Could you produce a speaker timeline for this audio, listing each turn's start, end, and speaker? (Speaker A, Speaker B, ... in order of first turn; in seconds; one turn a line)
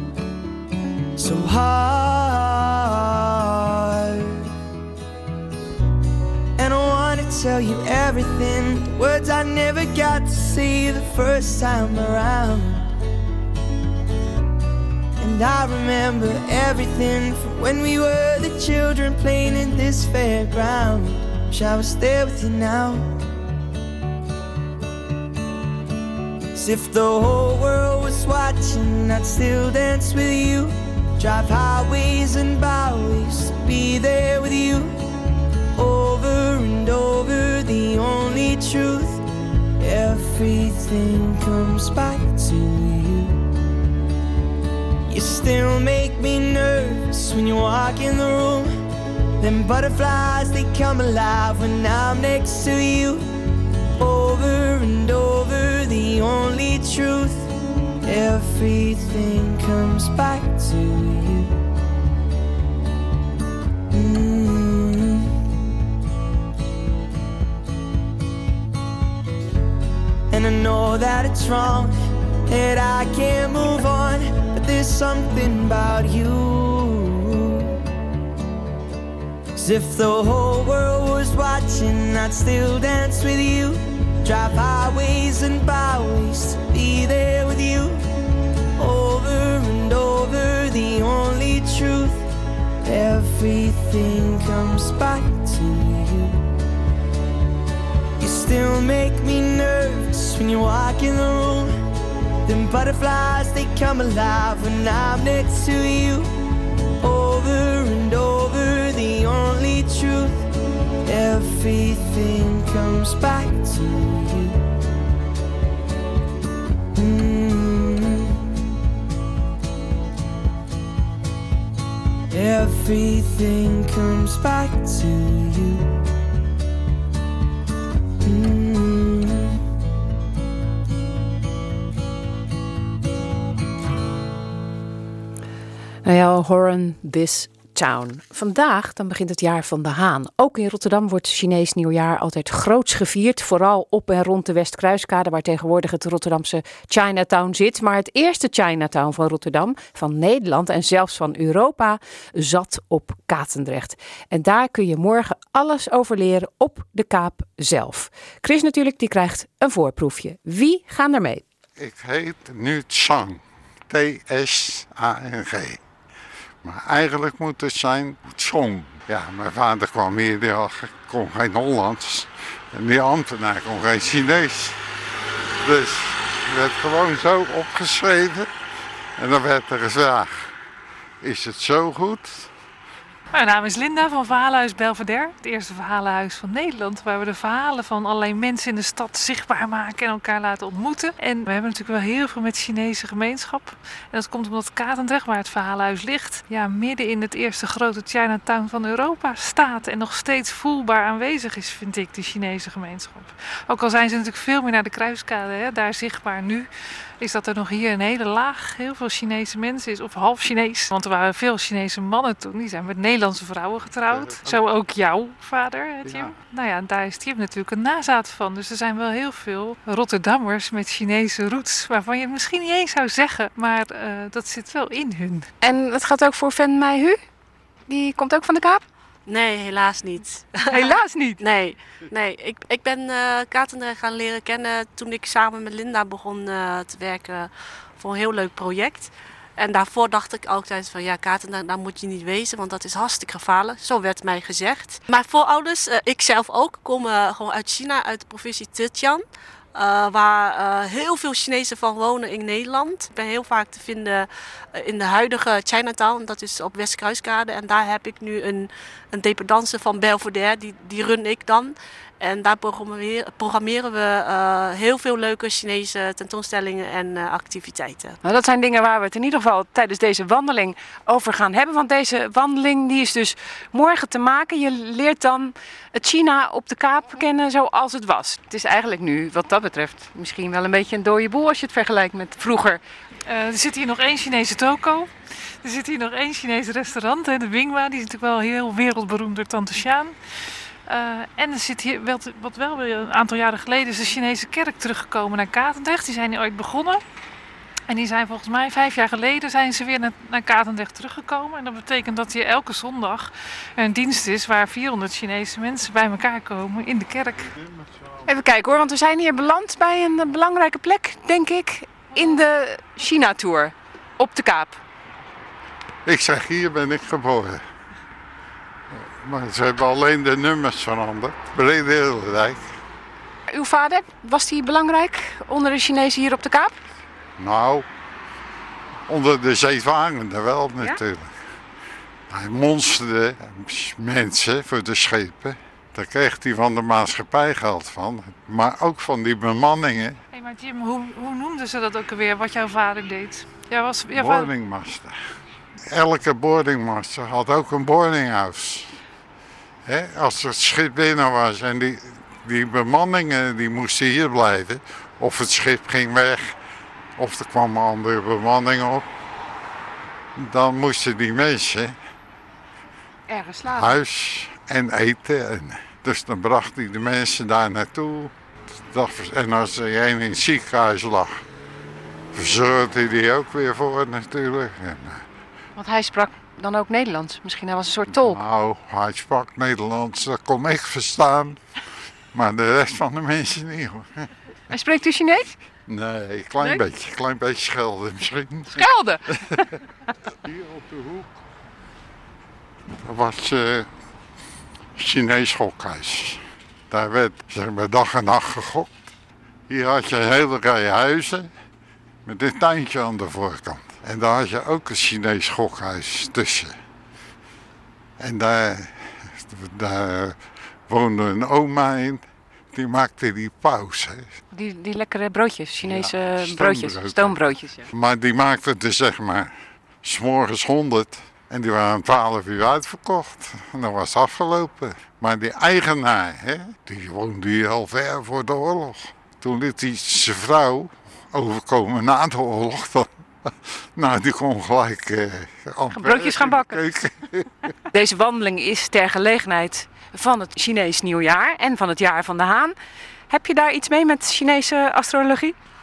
Speaker A: 1.1-4.5
Speaker A: 6.6-12.9
Speaker A: 15.2-23.2
Speaker A: 26.5-35.1
Speaker A: 35.7-39.3
Speaker A: 39.8-43.5
Speaker A: 45.1-48.8
Speaker A: 49.4-53.3
Speaker A: 54.0-57.5
Speaker A: 58.0-61.6
Speaker A: 63.9-65.4
Speaker A: 70.3-77.8
Speaker A: 79.5-88.2
Speaker A: 88.8-92.3
Speaker A: 92.8-96.5
Speaker A: 98.2-101.8
Speaker A: 102.4-106.3
Speaker A: 107.0-110.5
Speaker A: 111.0-114.7
Speaker A: 116.9-118.6
Speaker A: 122.3-126.0
Speaker A: 128.2-129.6
Speaker B: 136.0-161.4
Speaker C: 161.8-165.8
Speaker C: 166.6-174.8
Speaker C: 175.6-178.5
Speaker C: 179.2-180.5
Speaker C: 181.2-182.5
Speaker D: 183.3-206.7
Speaker D: 207.2-225.5
Speaker C: 214.0-214.6
Speaker C: 216.0-216.4
Speaker B: 225.6-227.2
Speaker B: 227.9-228.8
Speaker E: 229.3-249.2
Speaker B: 230.7-231.4
Speaker E: 249.7-268.2
Speaker B: 268.2-282.8
Speaker D: 283.3-290.2
Speaker D: 290.9-297.0
Speaker D: 297.9-307.5
Speaker B: 308.2-314.8
Speaker C: 316.1-317.6
Speaker C: 319.0-322.7
Speaker B: 323.5-326.8
Speaker C: 327.4-327.9
Speaker C: 329.1-331.3
Speaker C: 332.3-340.2
Speaker D: 340.3-344.5
Speaker C: 344.1-345.1
Speaker C: 345.9-348.9
Speaker C: 349.9-356.6
Speaker C: 357.2-359.0
Speaker C: 360.4-361.9
Speaker B: 363.3-363.9
Speaker C: 363.7-368.3
Speaker C: 368.9-371.4
Speaker C: 372.3-375.2
Speaker B: 375.8-378.4
Speaker C: 378.1-381.6
Speaker C: 382.3-384.3
Speaker B: 384.7-385.5
Speaker C: 385.9-388.8
Speaker B: 388.7-389.2
Speaker C: 390.4-391.3
Speaker C: 393.0-393.9
Speaker C: 395.0-398.9
Speaker C: 399.7-401.5
Speaker C: 402.2-406.7
Speaker C: 408.2-410.4
Speaker C: 410.9-414.3
Speaker B: 414.5-417.9
Speaker C: 415.8-419.5
Speaker C: 420.0-437.5
Speaker B: 435.9-436.8
Speaker B: 437.9-442.7
Speaker B: 443.3-445.5